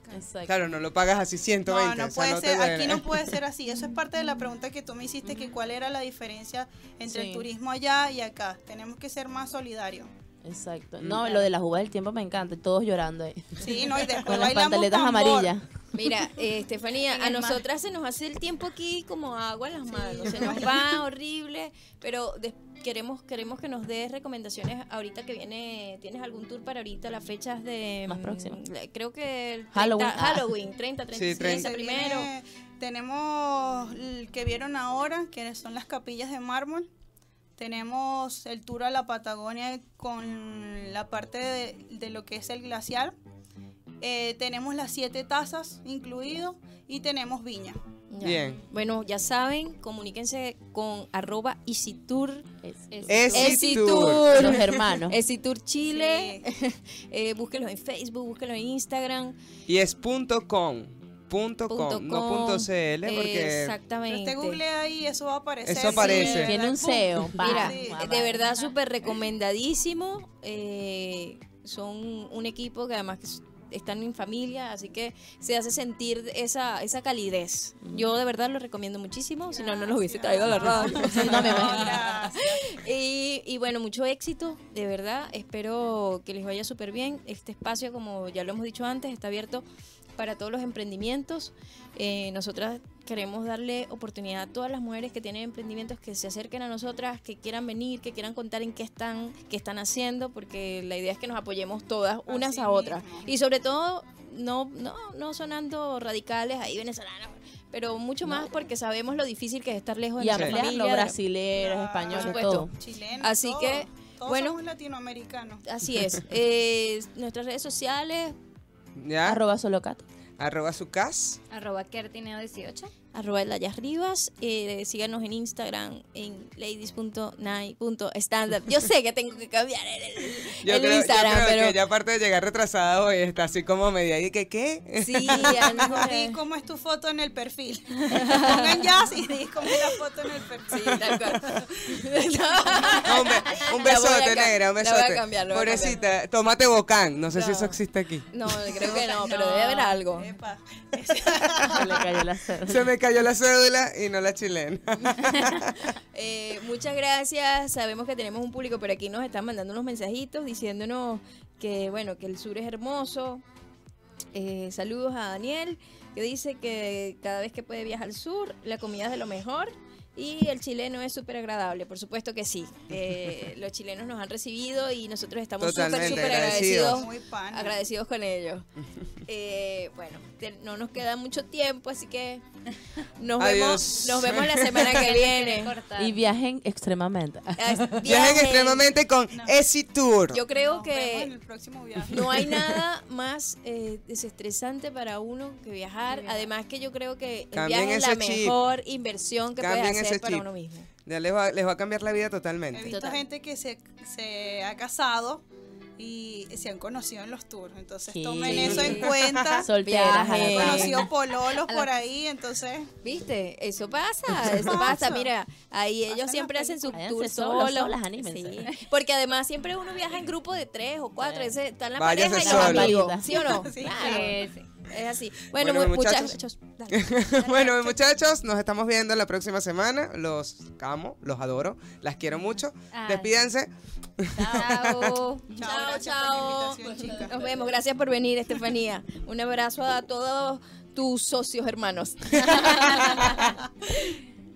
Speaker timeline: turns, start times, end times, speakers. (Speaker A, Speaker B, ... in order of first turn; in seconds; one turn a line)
Speaker A: 0.1-0.6
Speaker B: 0.5-3.4
Speaker C: 1.7-10.1
Speaker A: 7.1-7.5
Speaker A: 10.4-15.7
Speaker C: 13.6-15.5
Speaker D: 15.9-32.3
Speaker E: 17.1-17.6
Speaker C: 20.1-20.6
Speaker A: 28.1-28.6
Speaker A: 29.7-30.5
Speaker B: 31.1-31.7
Speaker C: 31.4-36.9
Speaker C: 37.6-43.1
Speaker C: 44.0-47.8
Speaker D: 48.1-52.5
Speaker B: 48.2-48.6
Speaker A: 52.6-55.2
Speaker E: 52.9-53.5
Speaker B: 53.1-54.7
Speaker D: 53.3-59.4
Speaker C: 55.8-56.4
Speaker B: 59.7-63.8
Speaker D: 61.7-64.6
Speaker C: 64.1-68.1
Speaker B: 65.6-66.5
Speaker D: 65.8-66.5
Speaker A: 66.2-68.5
Speaker D: 67.3-89.6
Speaker C: 79.5-82.7
Speaker E: 80.8-81.5
Speaker A: 81.0-82.0
Speaker D: 90.2-111.2
Speaker C: 102.3-103.3
Speaker A: 108.2-108.5
Speaker A: 110.2-112.7
Speaker B: 110.3-110.6
Speaker C: 111.6-115.6
Speaker D: 112.1-112.7
Speaker D: 113.2-114.6
Speaker D: 115.7-118.3
Speaker B: 119.0-119.4
Speaker A: 119.2-120.0
Speaker B: 120.4-121.4
Speaker E: 121.5-122.9
Speaker D: 123.1-131.8
Speaker B: 130.6-135.7
Speaker D: 135.0-136.4
Speaker C: 135.5-141.6
Speaker D: 138.1-139.0
Speaker D: 139.6-140.0
Speaker D: 140.7-146.0
Speaker B: 143.0-148.3
Speaker D: 147.3-150.3
Speaker C: 148.6-152.1
Speaker A: 151.6-152.9
Speaker B: 152.7-155.9
Speaker D: 156.1-163.4
Speaker D: 164.3-178.6
Speaker B: 175.6-177.0
Speaker C: 176.0-177.8
Speaker D: 179.3-182.4
Speaker D: 183.2-185.8
Speaker B: 183.4-185.1
Speaker E: 184.9-186.2
Speaker A: 186.0-188.0
Speaker D: 187.6-188.9
Speaker B: 188.0-190.4
Speaker D: 190.3-191.3
Speaker C: 190.5-192.6
Speaker D: 192.1-200.9
Speaker C: 196.1-196.4
Speaker B: 197.5-198.6
Speaker B: 199.6-200.4
Speaker B: 201.0-202.9
Speaker C: 202.7-205.4
Speaker A: 202.9-203.2
Speaker C: 206.0-209.7
Speaker A: 208.1-211.1
Speaker B: 208.4-209.6
Speaker D: 208.5-211.1
Speaker C: 210.5-212.9
Speaker E: 210.8-211.9
Speaker D: 213.0-228.1
Speaker C: 214.6-215.3
Speaker C: 216.1-216.9
Speaker A: 216.9-218.7
Speaker B: 221.9-223.0
Speaker A: 222.4-223.3
Speaker C: 223.3-224.3
Speaker E: 223.9-224.7
Speaker B: 225.5-226.4
Speaker B: 226.9-235.2
Speaker E: 232.9-233.3
Speaker E: 234.3-235.6
Speaker C: 235.5-237.8
Speaker D: 235.5-244.2